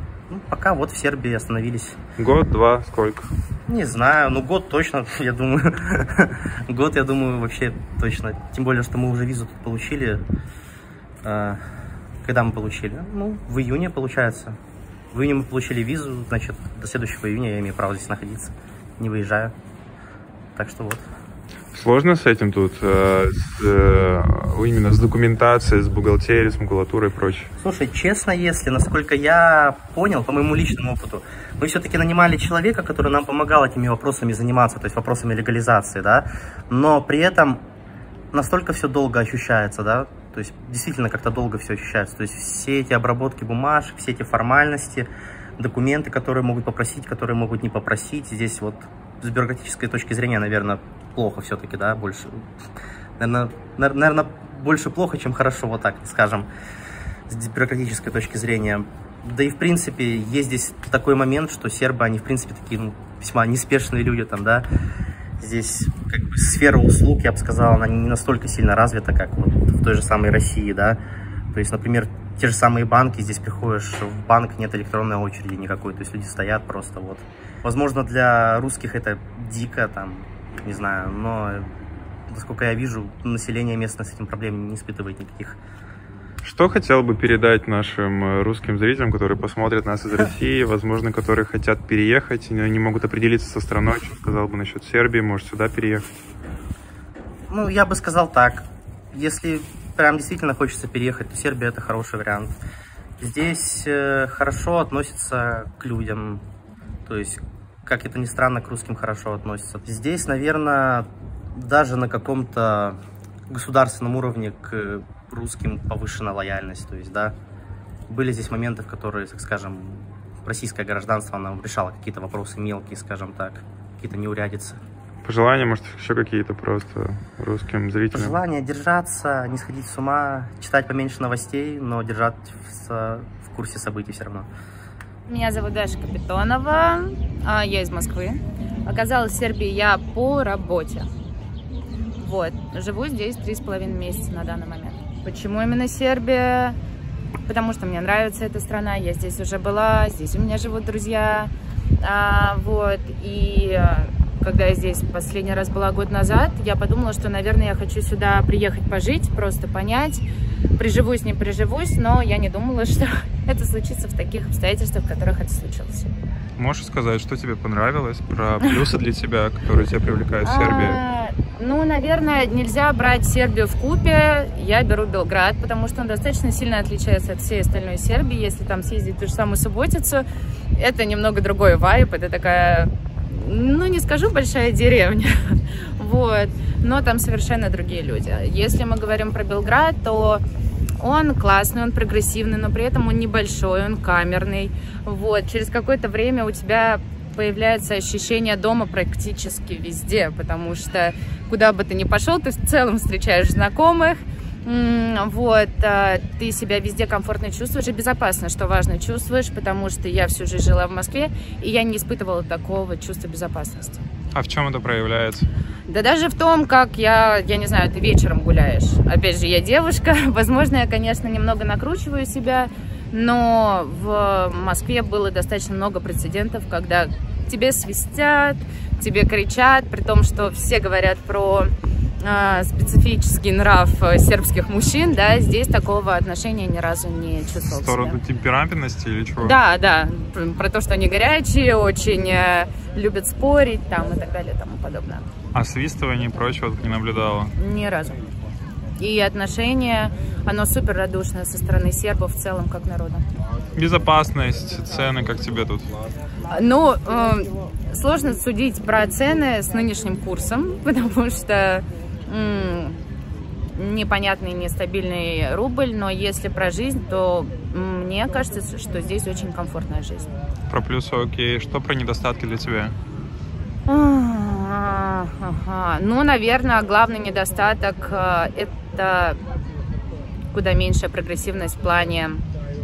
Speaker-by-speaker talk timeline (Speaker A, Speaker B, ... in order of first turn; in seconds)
Speaker A: 0.3-2.0, 3.7-10.2, 11.2-11.6, 12.2-14.6, 15.1-19.5, 20.6-21.1, 27.6-37.6, 38.3-52.5, 53.2-56.5, 57.3-64.7, 65.4-71.0, 71.5-81.7, 82.3-85.6, 97.5-102.6, 103.2-106.4, 107.0-117.3, 118.1-124.8, 128.1-134.5
Speaker B: 2.2-3.3, 21.7-27.5, 86.4-96.0, 125.2-128.4, 166.6-171.0, 214.3-215.5, 237.6-239.6, 245.5-247.5, 253.8-255.9, 270.7-272.9
Speaker C: 135.3-141.1, 142.1-146.8, 147.5-160.2, 160.8-166.1, 170.4-190.4, 191.0-214.0, 215.9-238.2, 239.4-245.2, 247.6-248.2, 249.0-253.2, 256.5-263.0, 263.7-270.3, 273.9-279.4, 280.5-282.4